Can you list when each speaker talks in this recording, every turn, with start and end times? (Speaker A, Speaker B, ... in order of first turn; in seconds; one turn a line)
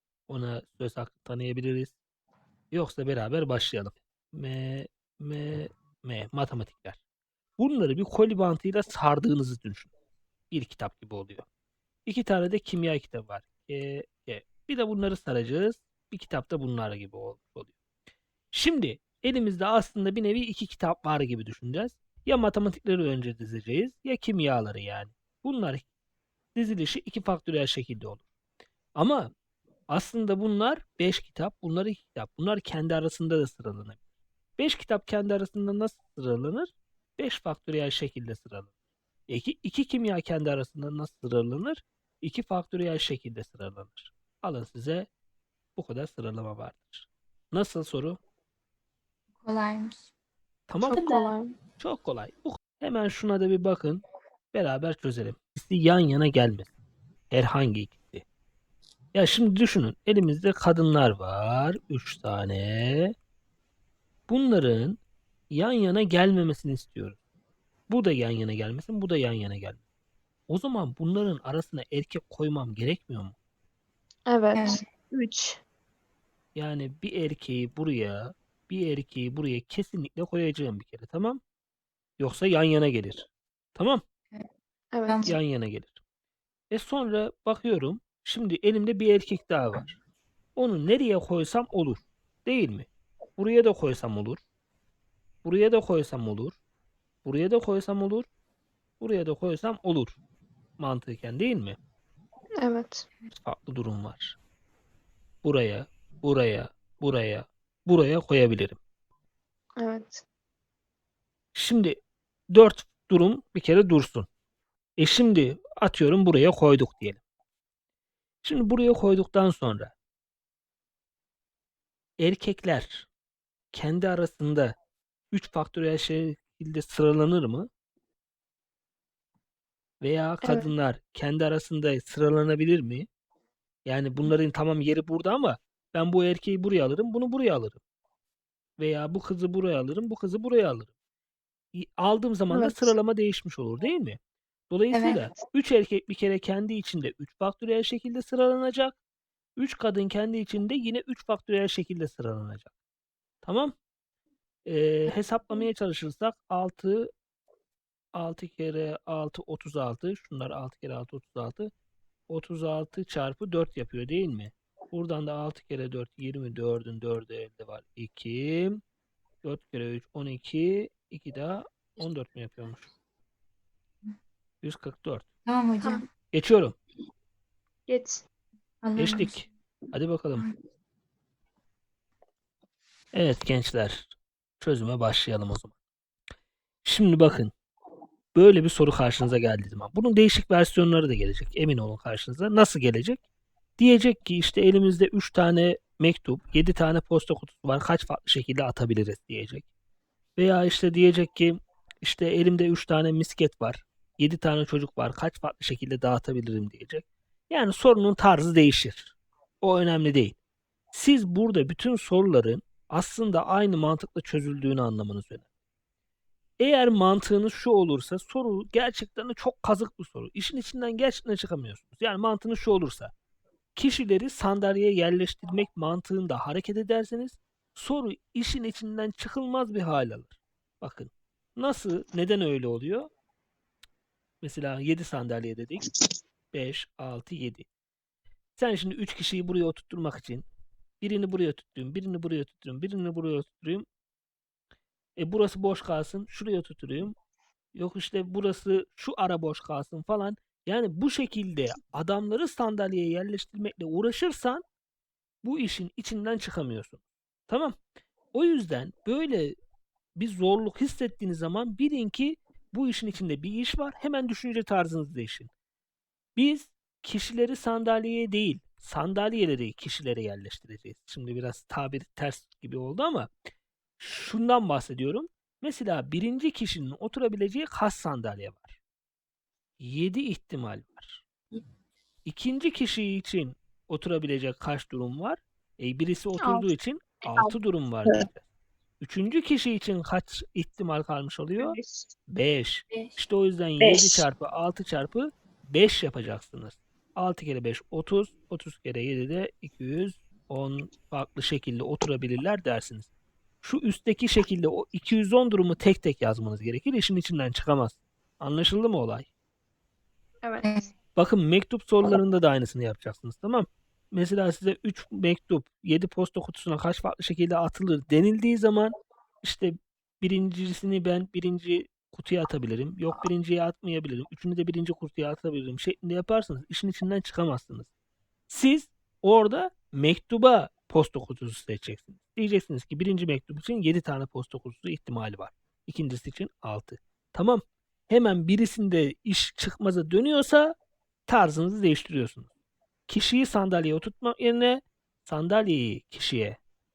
Speaker A: 0.3-1.9
Speaker A: 2.7-7.0
Speaker A: 7.6-9.9
Speaker A: 10.5-11.4
Speaker A: 12.1-17.7
Speaker A: 18.5-25.9
Speaker A: 26.5-28.2
Speaker A: 28.9-29.3
Speaker A: 29.9-34.0
Speaker A: 34.6-38.7
Speaker A: 39.3-45.1
Speaker A: 45.8-48.2
Speaker B: 49.4-50.1
Speaker A: 50.7-51.3
Speaker C: 50.8-51.5
Speaker A: 51.8-56.7
Speaker A: 57.3-58.2
Speaker A: 59.1-63.1
Speaker A: 64.3-65.0
Speaker A: 65.5-67.2
Speaker A: 67.9-69.8
Speaker A: 70.5-73.3
Speaker C: 74.3-75.6
Speaker B: 74.5-74.8
Speaker A: 76.5-81.4
Speaker A: 82.2-84.0
Speaker C: 84.9-85.3
Speaker B: 85.1-85.4
Speaker A: 85.2-86.0
Speaker A: 86.7-90.0
Speaker A: 90.5-94.4
Speaker A: 95.4-96.6
Speaker A: 97.2-98.3
Speaker A: 99.0-100.2
Speaker A: 100.8-101.8
Speaker C: 102.6-103.1
Speaker A: 103.4-104.4
Speaker A: 105.4-108.8
Speaker C: 109.8-110.2
Speaker A: 111.5-112.0
Speaker A: 112.5-114.3
Speaker A: 115.0-117.2
Speaker A: 118.4-119.9
Speaker A: 122.2-123.1
Speaker A: 123.7-124.8
Speaker A: 125.3-127.7
Speaker A: 130.0-133.1
Speaker C: 130.4-130.7
Speaker A: 133.8-137.8
Speaker A: 138.8-140.9
Speaker A: 141.7-144.2
Speaker C: 142.5-142.9
Speaker A: 144.7-149.0
Speaker B: 144.9-145.2
Speaker A: 149.6-152.7
Speaker A: 153.4-153.7
Speaker A: 154.7-157.1
Speaker A: 158.1-161.7
Speaker A: 162.3-168.8
Speaker A: 169.4-172.9
Speaker A: 174.6-175.3
Speaker B: 175.4-176.0
Speaker A: 176.3-176.8
Speaker C: 177.9-178.2
Speaker B: 178.8-179.3
Speaker A: 179.0-180.4
Speaker A: 183.1-185.7
Speaker A: 186.8-187.5
Speaker A: 188.3-193.2
Speaker A: 193.8-199.7
Speaker A: 200.4-210.3
Speaker A: 210.9-215.4
Speaker A: 216.6-223.1
Speaker A: 223.7-233.1
Speaker A: 234.4-235.8
Speaker A: 236.5-237.7
Speaker A: 238.6-240.4
Speaker A: 241.0-243.8
Speaker A: 245.2-247.2
Speaker A: 247.7-254.6
Speaker A: 255.4-257.8
Speaker A: 258.3-259.5
Speaker A: 260.1-265.5
Speaker A: 266.4-273.3
Speaker A: 274.0-278.8
Speaker A: 279.8-281.2
Speaker A: 282.2-288.4
Speaker C: 286.4-286.7
Speaker C: 287.2-287.5
Speaker A: 289.0-291.8
Speaker C: 291.6-292.1
Speaker A: 292.3-303.1
Speaker C: 293.8-294.3
Speaker A: 303.6-309.3
Speaker C: 310.4-310.7
Speaker A: 311.1-327.9
Speaker A: 328.5-342.5
Speaker A: 343.1-346.6